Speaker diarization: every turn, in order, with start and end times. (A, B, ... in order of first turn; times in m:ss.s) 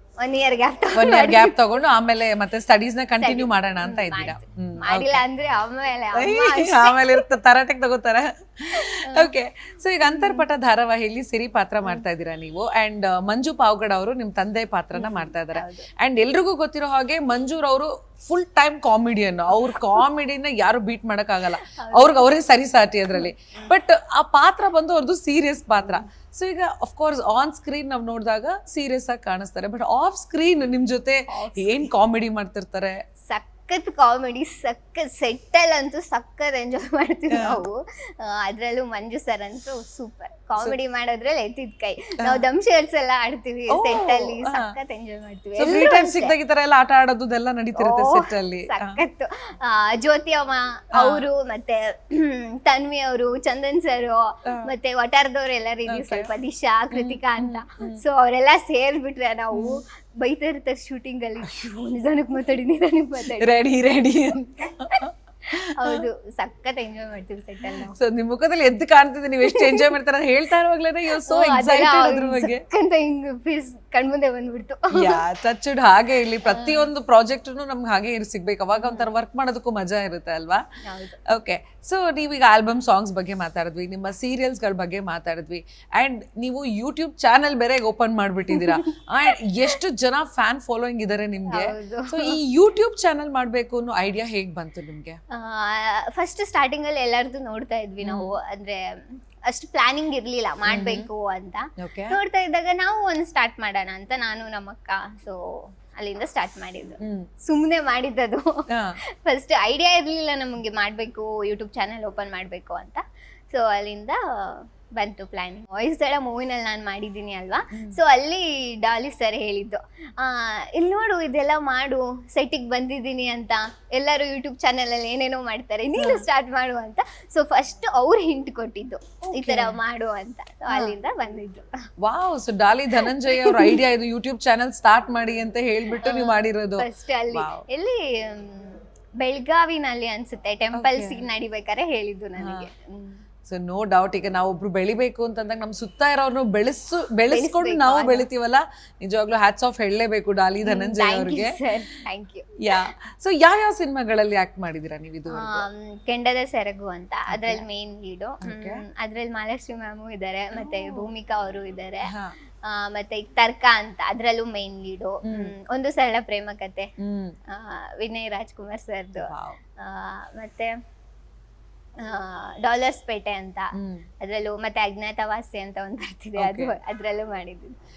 0:00.2-0:01.6 A
0:00.9-0:05.2 B
0:03.2-0:07.2 A
0:06.1-0:33.0 B
0:08.8-0:09.3 A
0:10.0-0:10.4 A
0:14.9-0:15.9 A
0:21.6-0:22.3 A
0:23.2-0:23.7 A
0:31.3-0:31.9 A
0:33.2-0:46.3 A
0:37.3-0:37.6 B
0:42.2-0:42.4 B
0:43.7-0:44.8 B
0:45.6-0:49.0 B
0:47.8-1:03.5 A
0:50.9-0:51.2 B
0:55.9-0:56.3 B
0:56.9-0:58.0 B
0:59.5-0:59.8 B
1:03.4-1:06.0 B
1:05.7-1:07.9 A
1:07.9-1:12.6 B
1:09.4-1:09.9 A
1:11.2-1:15.2 A
1:14.9-1:20.6 B
1:16.4-1:16.9 A
1:18.8-1:19.1 A
1:20.8-1:21.2 A
1:21.2-1:35.2 B
1:28.5-1:28.8 A
1:31.5-1:32.4 A
1:35.3-1:48.6 A
1:38.0-1:38.3 B
1:40.6-1:41.1 B
1:41.8-1:42.2 B
1:47.0-1:47.3 B
1:48.7-1:49.0 B
1:49.2-2:11.6 A
1:57.7-1:58.0 B
2:06.0-2:06.2 B
2:09.3-2:09.8 B
2:12.0-2:17.6 B
2:13.0-2:13.8 A
2:16.0-2:23.2 A
2:20.7-2:21.2 B
2:22.4-2:22.7 B
2:23.4-2:31.6 B
2:27.3-2:28.3 A
2:30.6-2:32.8 A
2:32.6-2:35.6 B
2:35.3-2:42.1 A
2:37.3-2:37.6 B
2:38.4-2:38.8 B
2:40.6-2:41.0 B
2:42.1-2:42.3 B
2:42.6-2:46.9 A
2:45.2-2:45.5 B
2:47.0-2:47.4 B
2:47.5-2:50.7 A
2:49.2-2:49.6 B
2:52.0-2:57.7 A
2:53.7-2:54.0 B
2:56.4-2:56.7 B